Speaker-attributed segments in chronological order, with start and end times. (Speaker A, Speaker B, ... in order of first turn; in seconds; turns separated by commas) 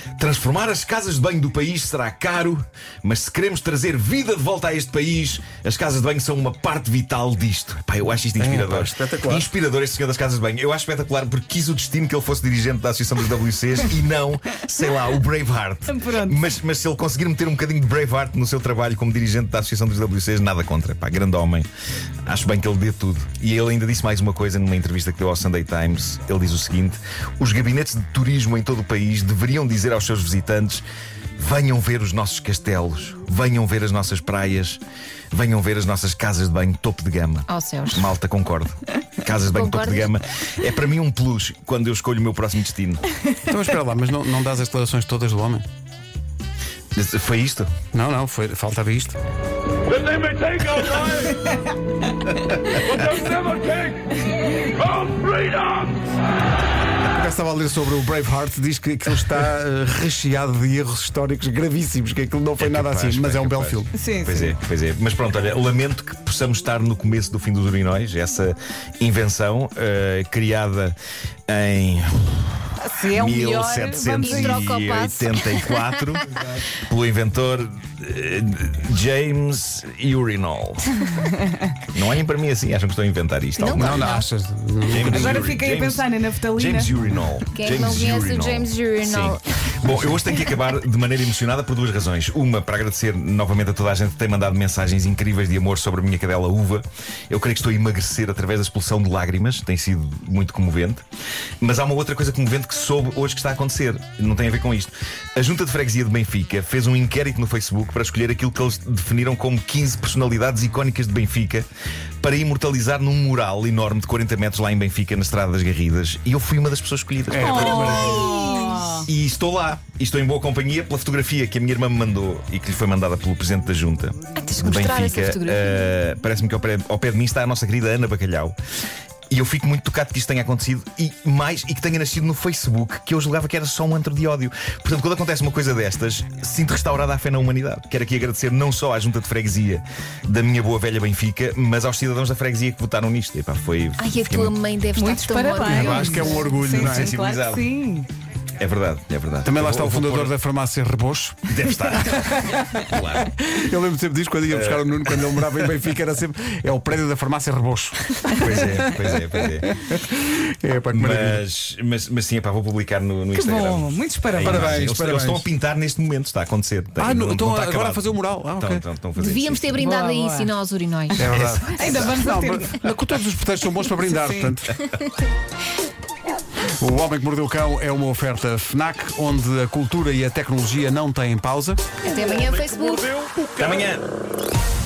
Speaker A: 0.2-21.7, Speaker B: 8.4-9.5, Speaker C: 15.9-16.4, Speaker A: 22.3-30.9, Speaker A: 31.4-34.8, Speaker A: 35.3-43.0, Speaker D: 37.5-38.0, Speaker D: 39.5-40.1, Speaker B: 43.4-45.6, Speaker A: 47.0-47.7, Speaker B: 47.9-49.2, Speaker E: 49.9-51.3, Speaker E: 53.1-54.0, Speaker E: 54.8-56.0, Speaker B: 57.0-63.9, Speaker A: 62.6-71.0, Speaker C: 63.9-64.6, Speaker A: 71.5-81.0, Speaker C: 72.8-74.6, Speaker D: 74.2-76.0, Speaker A: 81.9-84.2, Speaker D: 83.6-84.3, Speaker B: 83.7-85.5, Speaker A: 84.9-101.0, Speaker C: 85.0-86.9, Speaker D: 87.5-89.4, Speaker A: 101.6-111.7, Speaker A: 112.2-118.3, Speaker B: 117.3-118.3, Speaker C: 117.3-119.1, Speaker D: 118.2-118.8, Speaker A: 118.9-128.6, Speaker D: 124.4-125.8, Speaker A: 129.3-144.6, Speaker D: 144.0-146.3, Speaker C: 145.0-148.1, Speaker B: 145.7-147.2, Speaker A: 145.7-147.7, Speaker A: 148.6-150.3, Speaker B: 149.4-151.5, Speaker A: 151.5-153.4, Speaker C: 152.1-152.7, Speaker B: 153.5-161.4, Speaker A: 154.5-155.7, Speaker A: 158.3-159.7, Speaker A: 160.9-169.8, Speaker C: 163.3-164.8, Speaker B: 164.4-165.5, Speaker B: 167.0-168.8, Speaker D: 169.2-171.3, Speaker C: 169.8-170.6, Speaker B: 171.2-174.8, Speaker A: 171.2-172.2, Speaker C: 171.7-172.8, Speaker C: 174.1-174.6, Speaker B: 176.8-181.9, Speaker D: 182.0-183.2, Speaker E: 182.3-183.9, Speaker A: 183.6-184.0